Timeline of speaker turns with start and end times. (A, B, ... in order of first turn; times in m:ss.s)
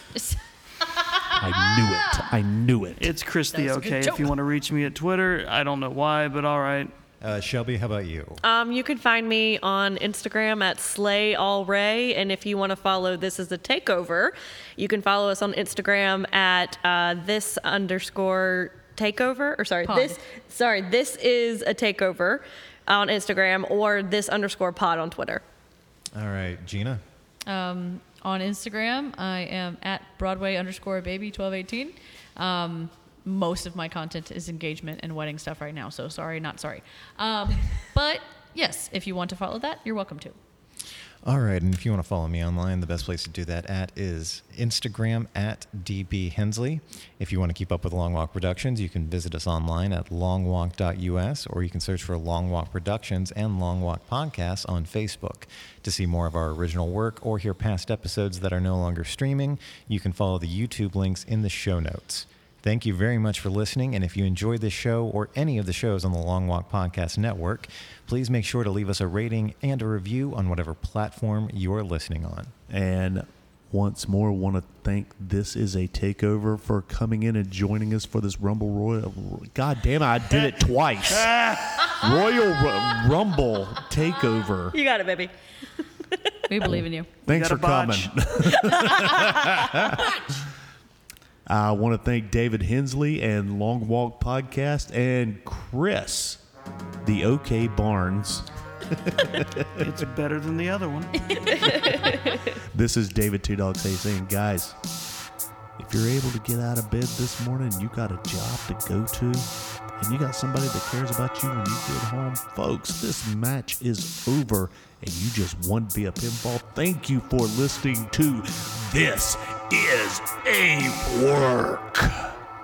0:00.1-0:02.3 A
0:01.4-0:03.1 B
0:03.0-0:06.9 C
0:03.5-0:04.4 A
0:07.2-0:08.4 D
0:08.4-0:25.4 E
0:19.8-0:20.2 A
0:26.2-0:27.0 D
0:27.5-0:40.4 A
0:41.2-1:12.5 D
1:12.7-1:24.8 B
1:21.1-1:21.8 C
1:24.7-1:25.3 E
1:26.5-1:27.1 A
1:26.6-1:30.1 B
1:27.3-1:28.2 C
1:28.4-1:30.1 E
1:31.5-1:36.4 B
1:37.0-1:39.8 B
1:39.8-1:41.7 C
1:41.3-1:42.2 A
1:41.5-1:42.5 E
1:42.0-1:44.8 B
1:45.8-1:49.5 B
1:50.0-2:02.4 B